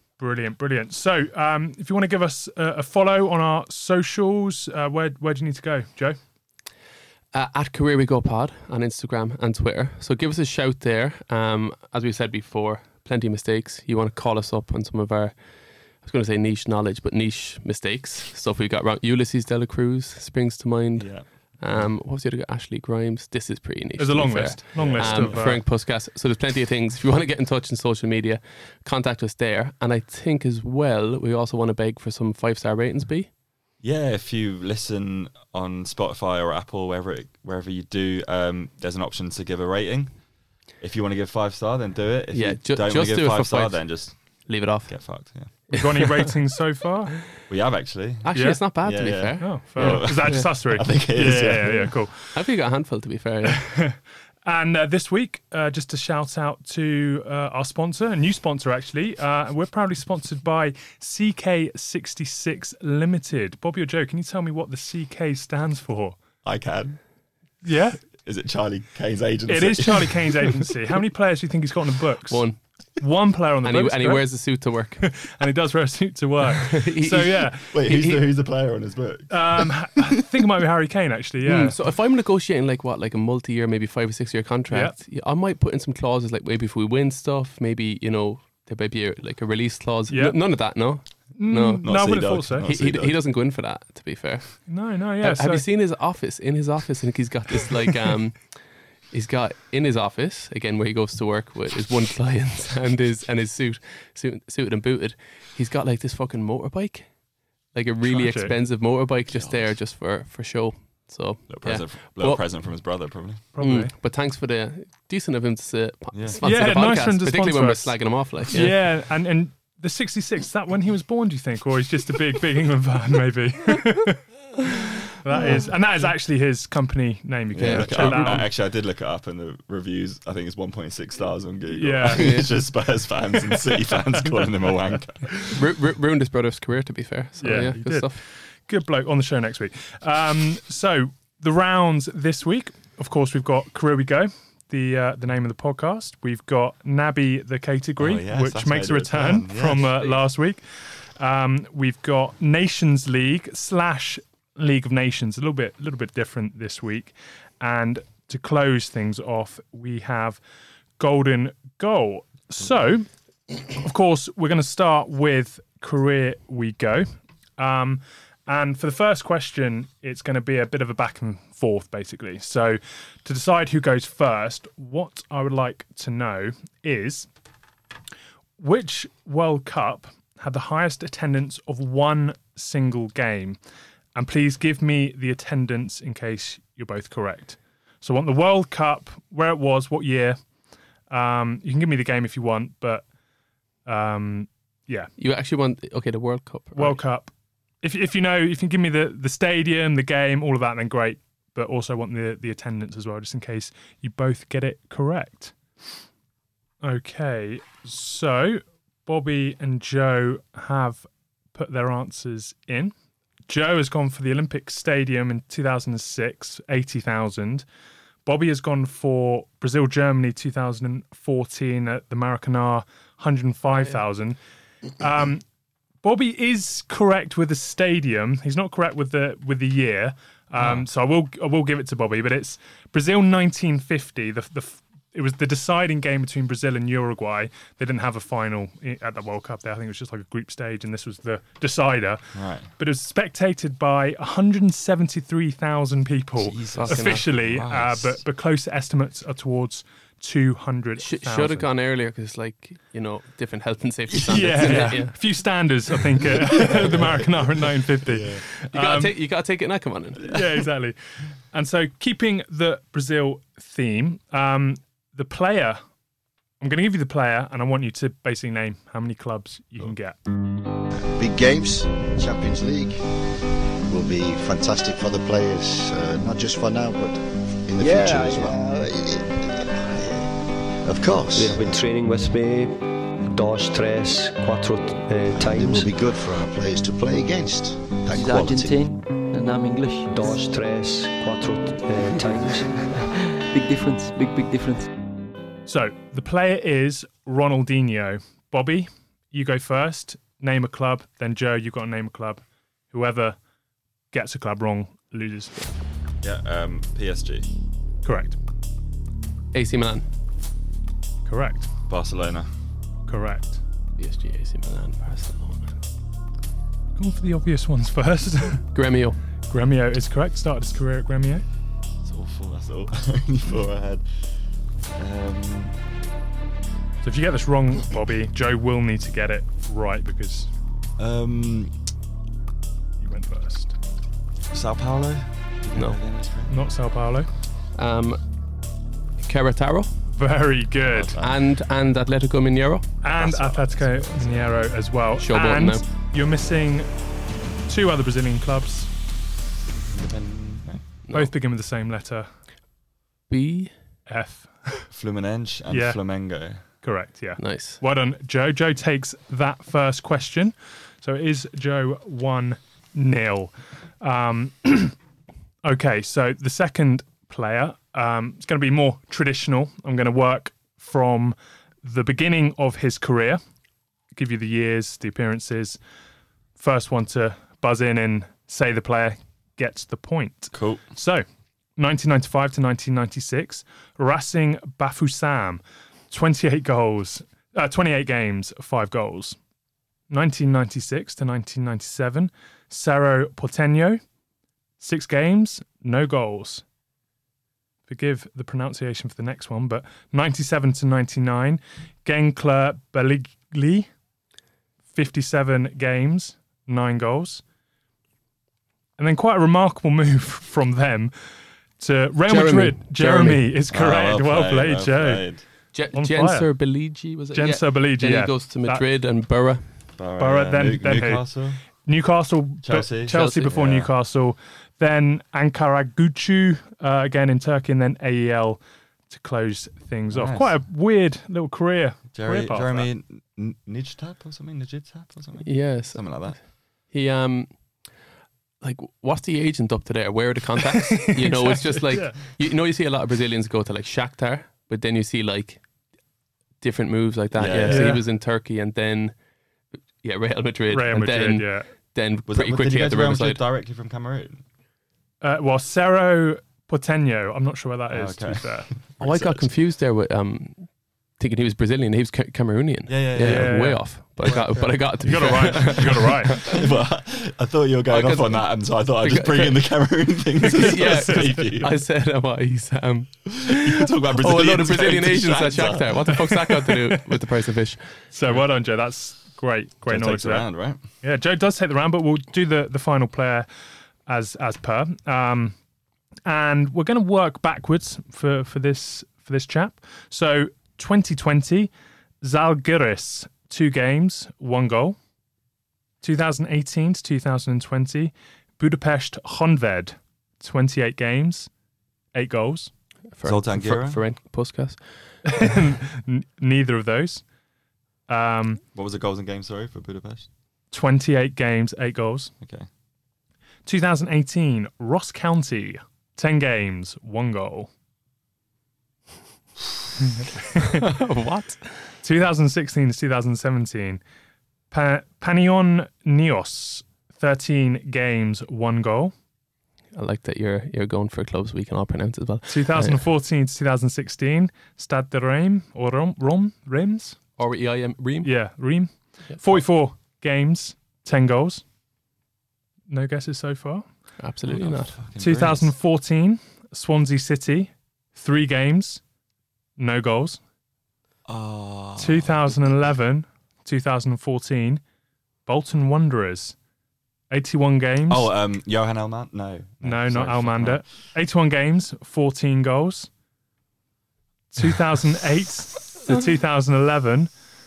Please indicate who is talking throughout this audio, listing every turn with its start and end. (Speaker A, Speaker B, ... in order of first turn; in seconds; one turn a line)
Speaker A: 0.2-6.2
Speaker B: 7.3-15.3
Speaker B: 16.0-33.3
Speaker C: 21.0-21.9
Speaker A: 24.0-25.6
Speaker C: 24.8-25.6
Speaker C: 33.8-40.1
Speaker C: 40.8-45.5
Speaker B: 42.3-43.8
Speaker B: 44.5-45.0
Speaker A: 45.7-47.2
Speaker C: 47.5-51.9
Speaker B: 48.2-50.5
Speaker A: 48.3-48.6
Speaker A: 49.4-52.3
Speaker B: 52.3-53.8
Speaker A: 53.5-66.2
Speaker C: 66.4-67.0
Speaker A: 67.6-68.0
Speaker C: 68.2-70.7
Speaker A: 69.5-72.4
Speaker B: 72.3-72.6
Speaker A: 73.0-74.2
Speaker B: 73.6-75.0
Speaker A: 75.0-77.8
Speaker B: 76.6-78.2
Speaker C: 77.7-79.7
Speaker A: 79.3-81.8
Speaker B: 81.4-91.9
Speaker A: 84.7-85.0
Speaker A: 90.1-90.4
Speaker A: 91.4-92.7
Speaker C: 91.8-93.2
Speaker B: 92.6-94.7
Speaker A: 94.7-95.6
Speaker B: 95.2-98.4
Speaker B: 99.1-107.1
Speaker B: 107.7-112.4
Speaker A: 108.0-108.6
Speaker C: 109.3-109.8
Speaker C: 111.5-113.5
Speaker A: 113.5-113.9
Speaker B: 113.6-118.8
Speaker C: 116.1-116.7
Speaker A: 116.4-128.4
Speaker C: 127.5-135.5
Speaker B: 127.6-128.4
Speaker A: 131.7-132.5
Speaker B: 132.2-132.5
Speaker B: 135.5-138.2
Speaker A: 137.4-150.6
Speaker C: 148.0-150.0
Speaker B: 149.8-150.2
Speaker A: 151.2-160.4
Speaker A: 161.0-167.1
Speaker A: 167.6-177.3
Speaker A: 178.6-183.6
Speaker A: 184.2-190.4
Speaker A: 191.1-193.0
Speaker A: 193.9-195.1
Speaker B: 195.2-197.0
Speaker A: 196.8-205.6
Speaker A: 206.8-212.9
Speaker A: 213.5-217.7
Speaker A: 218.2-224.4
Speaker A: 225.0-225.4
Speaker A: 226.0-242.2
Speaker C: 230.6-230.9
Speaker C: 242.3-242.7
Speaker A: 242.8-251.7
Speaker C: 246.4-248.2
Speaker B: 246.8-247.3
Speaker B: 251.0-255.2
Speaker C: 254.1-255.0
Speaker A: 254.3-259.1
Speaker C: 256.5-258.4
Speaker B: 258.7-260.3
Speaker A: 260.2-261.0
Speaker A: 261.5-265.8
Speaker A: 266.6-270.2
Speaker D: 271.1-273.0
Speaker D: 273.9-281.8
Speaker E: 277.8-278.6
Speaker E: 281.4-285.9
Speaker D: 285.3-288.9
Speaker F: 288.1-290.3
Speaker E: 290.1-292.9
Speaker F: 292.2-294.9
Speaker A: 295.7-303.4
Speaker A: 304.1-305.6
Speaker C: 306.2-307.5
Speaker A: 308.0-308.4
Speaker B: 309.5-310.1
Speaker A: 311.3-311.7
Speaker C: 311.9-312.5
Speaker A: 313.1-313.6
Speaker B: 314.0-315.8
Speaker A: 317.0-318.7
Speaker B: 318.7-319.2
Speaker A: 319.5-321.4
Speaker C: 322.1-324.1
Speaker C: 325.0-325.8
Speaker A: 327.0-330.5
Speaker C: 331.0-331.7
Speaker A: 333.0-333.8
Speaker C: 334.5-336.5
Speaker A: 336.5-337.3
Speaker B: 337.8-338.2
Speaker B: 339.2-339.9
Speaker A: 340.2-341.2
Speaker C: 340.9-341.4
Speaker B: 341.2-342.8
Speaker A: 343.0-346.9
Speaker C: 343.1-344.6
Speaker B: 345.2-345.8
Speaker A: 347.7-348.9
Speaker C: 349.9-350.8
Speaker A: 351.1-352.3
Speaker B: 353.3-353.7
Speaker A: 354.1-354.9
Speaker C: 354.9-356.6
Speaker A: 355.7-356.0
Speaker A: 356.8-364.9
Speaker B: 357.4-357.8
Speaker A: 365.6-373.4
Speaker A: 374.1-375.8
Speaker A: 376.6-381.2
Speaker C: 380.5-380.8
Speaker A: 381.8-389.4
Speaker A: 390.1-394.0
Speaker A: 394.8-396.6
Speaker A: 397.9-403.9
Speaker A: 404.9-407.4
Speaker A: 409.0-411.1
Speaker A: 411.8-415.2
Speaker B: 412.3-413.5
Speaker C: 413.7-415.4
Speaker B: 415.7-419.6
Speaker A: 415.9-416.5
Speaker A: 417.3-418.8
Speaker C: 420.0-421.6
Speaker A: 420.2-421.2
Speaker A: 421.9-432.9
Speaker C: 422.6-423.9
Speaker B: 423.1-423.5
Speaker C: 430.1-430.6
Speaker C: 432.1-436.4
Speaker B: 435.4-436.3
Speaker B: 436.9-437.6
Speaker B: 438.6-445.6
Speaker A: 440.9-442.2
Speaker B: 446.6-449.1
Speaker C: 447.4-447.9
Speaker A: 447.7-448.0
Speaker B: 450.0-453.4
Speaker A: 450.7-451.7
Speaker C: 452.3-454.4
Speaker A: 455.2-458.7
Speaker C: 457.9-459.5
Speaker B: 459.0-460.7
Speaker B: 461.2-466.6
Speaker C: 462.9-471.8
Speaker A: 463.2-464.4
Speaker A: 465.0-466.4
Speaker B: 467.9-469.7
Speaker B: 470.4-477.8
Speaker A: 471.0-471.3
Speaker C: 473.3-476.3
Speaker A: 478.1-480.5
Speaker C: 479.9-480.8
Speaker A: 481.0-483.5
Speaker A: 484.1-485.6
Speaker A: 486.3-495.0
Speaker A: 496.0-501.5
Speaker A: 502.1-502.7
Speaker B: 503.1-504.8
Speaker C: 503.2-504.0
Speaker A: 505.2-507.2
Speaker A: 508.1-508.6
Speaker C: 508.8-510.3
Speaker A: 510.7-512.3
Speaker C: 512.4-512.7
Speaker A: 513.7-517.7
Speaker A: 520.2-520.8
Speaker B: 520.8-521.9
Speaker A: 522.0-524.0
Speaker A: 524.7-529.1
Speaker B: 530.0-533.0
Speaker A: 532.5-537.2
Speaker B: 537.4-538.3
Speaker A: 538.2-541.6
Speaker B: 539.3-539.6
Speaker A: 542.9-543.9
Speaker B: 544.2-545.0
Speaker C: 544.5-545.7
Speaker A: 545.2-549.0
Speaker A: 549.8-550.4
Speaker C: 551.3-552.4
Speaker A: 552.0-554.8
Speaker A: 555.5-556.5
Speaker A: 557.3-558.3
Speaker C: 558.1-560.8
Speaker A: 559.8-563.1
Speaker A: 564.5-567.3